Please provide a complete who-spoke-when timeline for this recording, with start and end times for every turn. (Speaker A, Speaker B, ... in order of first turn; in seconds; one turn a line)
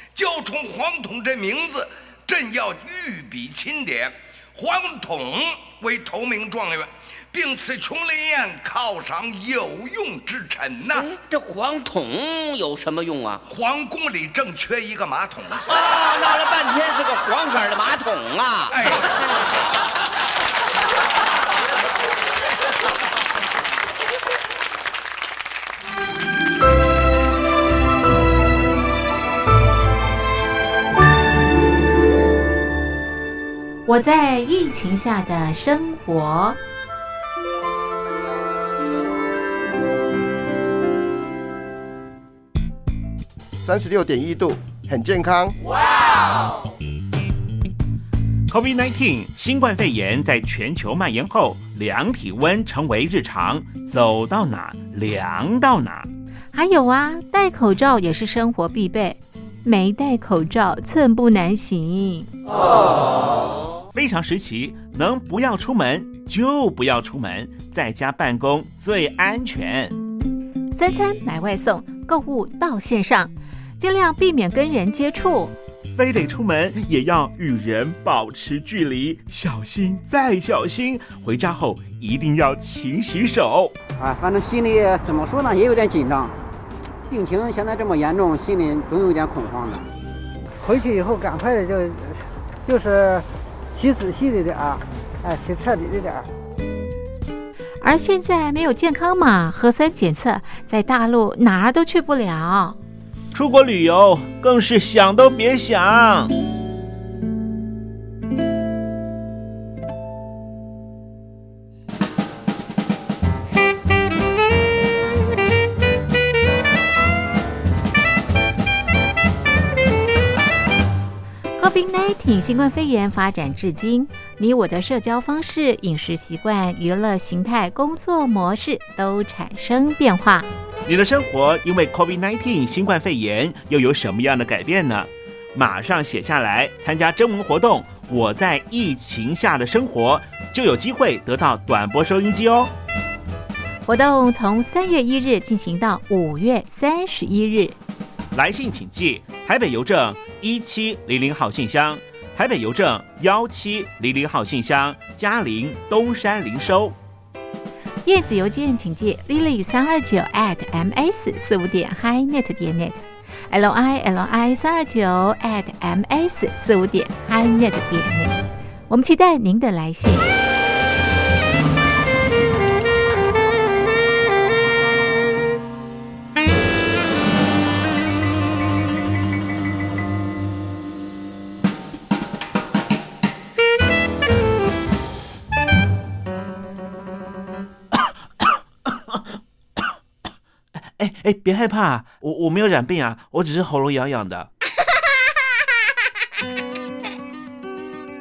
Speaker A: 0.1-11.1
Speaker B: 10.9-13.4
Speaker A: 13.4-15.7
Speaker B: 15.7-19.1
Speaker A: 18.7-19.1
Speaker C: 33.9-36.6
Speaker D: 43.6-45.5
Speaker E: 48.5-56.1
Speaker C: 56.5-62.3
Speaker E: 63.9-70.0
Speaker C: 70.7-75.5
Speaker E: 75.9-83.7
Speaker F: 84.0-86.3
Speaker F: 87.1-89.9
Speaker G: 90.6-96.3
Speaker C: 97.8-102.8
Speaker E: 103.3-106.3
Speaker C: 121.6-130.5
Speaker E: 130.9-142.7
Speaker C: 143.9-147.8
Speaker E: 148.3-157.0
Speaker C: 158.1-163.0
Speaker C: 163.5-168.3
Speaker C: 168.9-170.3
Speaker E: 191.0-194.5